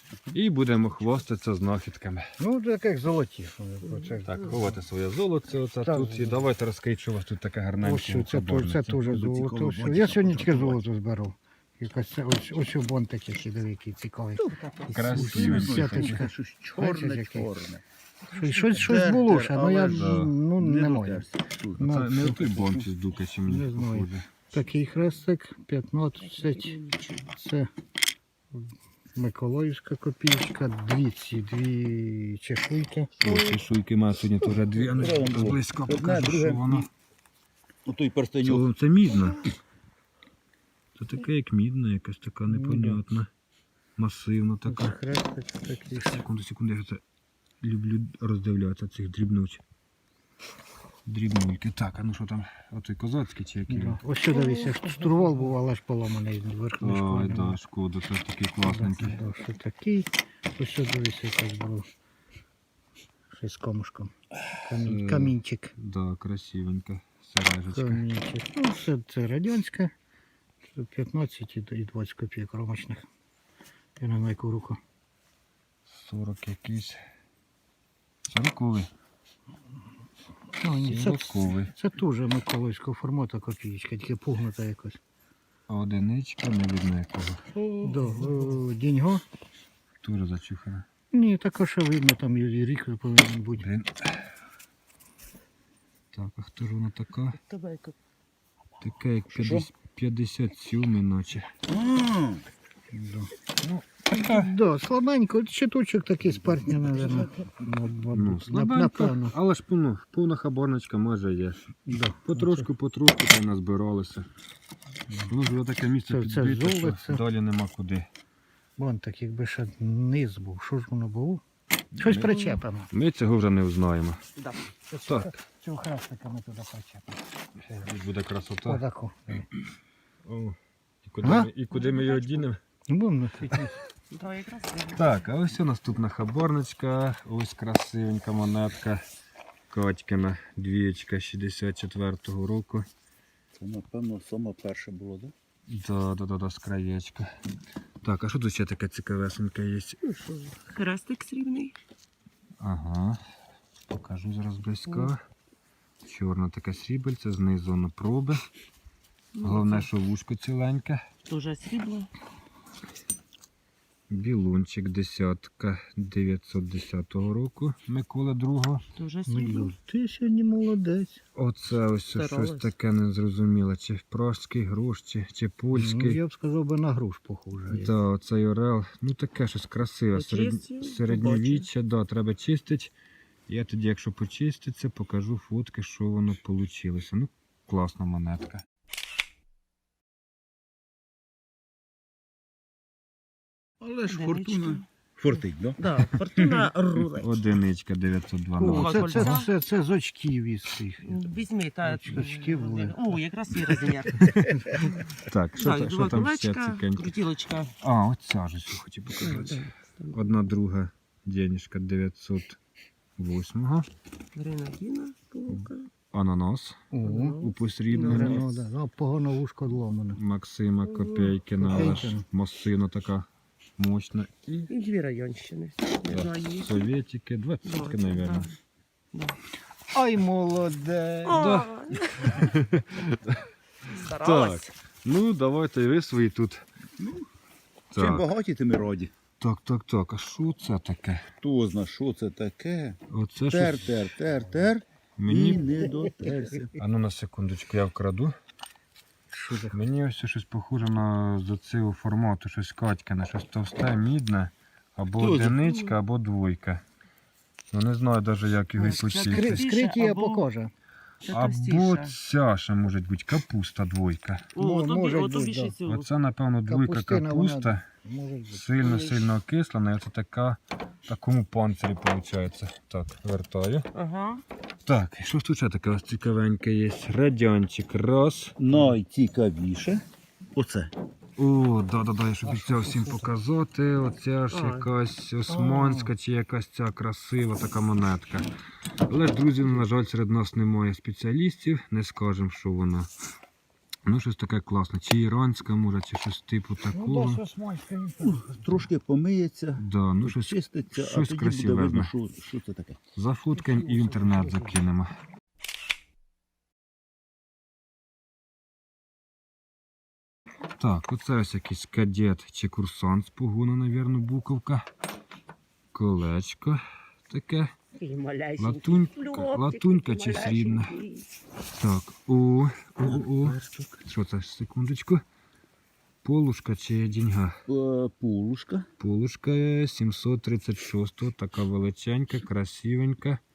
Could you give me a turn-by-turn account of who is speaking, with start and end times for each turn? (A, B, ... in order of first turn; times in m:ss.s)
0:00.3-0:02.2 A
0:02.4-0:04.8 B
0:03.9-0:04.2 C
0:04.2-0:09.2 A
0:05.9-0:06.4 B
0:07.8-0:17.5 B
0:09.1-0:10.8 D
0:14.4-0:15.6 C
0:14.9-0:16.2 A
0:15.0-0:17.8 D
0:18.3-0:21.2 B
0:18.3-0:19.0 C
0:18.6-0:22.0 D
0:19.8-0:20.4 A
0:21.8-0:22.9 B
0:21.8-0:24.3 A
0:23.5-0:27.7 B
0:26.2-0:27.3 C
0:28.6-0:33.1 B
0:33.2-0:36.9 A
0:34.6-0:36.9 D
0:37.9-0:38.7 D
0:38.4-0:39.4 A
0:41.0-0:43.3 A
0:42.5-0:43.0 B
0:44.0-0:45.0 A
0:44.7-0:46.2 B
0:45.9-0:47.0 A
0:47.6-0:49.6 A
0:51.1-0:54.0 A
0:53.7-0:57.6 B
0:54.3-0:55.2 C
0:56.8-0:59.2 A
0:58.6-1:01.9 B
1:03.3-1:05.7 B
1:04.8-1:08.0 A
1:07.7-1:09.9 B
1:10.7-1:13.1 B
1:14.0-1:14.8 B
1:15.9-1:17.0 A
1:18.3-1:18.9 A
1:20.6-1:25.0 B
1:20.7-1:21.7 A
1:25.7-1:27.5 A
1:27.6-1:28.1 C
1:27.8-1:29.2 B
1:30.0-1:30.9 A
1:31.1-1:33.6 B
1:33.6-1:34.2 A
1:36.1-1:37.4 A
1:37.3-1:38.0 C
1:38.8-1:41.5 A
1:39.3-1:39.7 D
1:41.7-1:42.4 D
1:42.9-1:43.3 B
1:43.6-1:44.5 A
1:44.1-1:49.4 B
1:46.6-1:47.3 D
1:48.1-1:54.3 A
1:51.9-1:52.7 B
1:55.3-1:58.1 A
1:56.1-1:57.2 B
1:58.8-2:01.4 B
2:02.0-2:02.9 B
2:02.0-2:02.4 A
2:02.3-2:02.6 C
2:02.9-2:04.2 A
2:04.4-2:04.7 C
2:04.9-2:07.2 B
2:05.1-2:05.3 A
2:07.7-2:08.8 A
2:08.6-2:09.5 B
2:10.2-2:12.6 A
2:11.2-2:11.5 B
2:11.7-2:12.5 C
2:12.9-2:13.8 B
2:14.1-2:15.2 C
2:15.0-2:19.0 A
2:19.7-2:22.9 A
2:23.6-2:25.3 D
2:25.7-2:27.3 A
2:28.0-2:30.0 A
2:30.0-2:31.8 C
2:32.6-2:33.2 A
2:33.9-2:35.2 A
2:36.0-2:38.4 A
2:39.4-2:39.9 C
2:39.4-2:41.0 A
2:41.3-2:42.1 C
2:44.1-2:48.8 A
2:49.0-2:49.7 C
2:49.3-2:51.2 B
2:51.4-2:56.2 A
2:52.1-2:52.7 C
2:55.7-2:57.9 B
2:57.7-3:02.9 A
3:00.1-3:01.7 C
3:03.5-3:08.6 A
3:13.8-3:15.8 D
3:14.1-3:14.8 C
3:15.8-3:17.6 C
3:16.4-3:16.7 D
3:17.1-3:19.4 A
3:18.6-3:21.2 B
3:18.7-3:19.5 C
3:21.0-3:27.7 C
3:21.8-3:23.0 B
3:25.2-3:27.1 A
3:27.8-3:32.6 A
3:29.1-3:30.2 C
3:33.2-3:33.9 A
3:34.4-3:35.9 C
3:35.5-3:38.5 A
3:36.9-3:37.4 B
3:37.0-3:38.6 C
3:38.0-3:40.2 B
3:40.2-3:43.3 A
3:40.8-3:42.0 C
3:41.6-3:42.3 B
3:43.8-3:44.7 A
3:44.7-3:46.8 C
3:46.1-3:48.5 A
3:47.6-3:48.6 C
3:49.1-3:49.4 C
3:49.9-3:51.5 B
3:51.2-3:52.5 C
3:51.3-3:53.4 A
3:53.9-3:54.7 C
3:54.0-3:56.6 A
3:57.0-3:57.3 D
3:57.9-3:58.3 A
3:58.0-3:59.1 D
3:59.4-4:01.2 A
4:01.4-4:06.7 D
4:03.1-4:04.0 A
4:05.2-4:05.8 A
4:06.8-4:08.3 A
4:09.3-4:09.8 B
4:09.7-4:16.8 A
4:15.2-4:15.7 D
4:15.2-4:15.9 C
4:17.7-4:19.7 A
4:18.8-4:20.5 C
4:19.2-4:20.7 B
4:21.2-4:22.2 C
4:21.3-4:24.5 A
4:24.6-4:26.1 C
4:24.6-4:25.8 B
4:25.8-4:27.8 A
4:26.7-4:28.8 B
4:28.5-4:33.9 A
4:28.8-4:29.3 C
4:34.0-4:34.4 C
4:34.9-4:38.6 A
4:38.6-4:40.9 D
4:41.4-4:48.5 A
4:42.4-4:43.3 B
4:44.5-4:44.9 C
4:45.5-4:46.1 B
4:49.1-4:53.1 A
4:54.1-4:57.4 A
4:56.9-4:58.9 B
4:58.2-5:03.0 D
4:59.8-5:02.1 A
5:03.2-5:05.1 A
5:03.6-5:04.8 B
5:10.8-5:14.9 A
5:15.9-5:17.7 A
5:18.0-5:21.3 C
5:18.6-5:20.9 A
5:21.7-5:25.2 A
5:23.0-5:24.0 D
5:26.2-5:27.6 A
5:27.7-5:28.9 D
5:29.0-5:33.4 A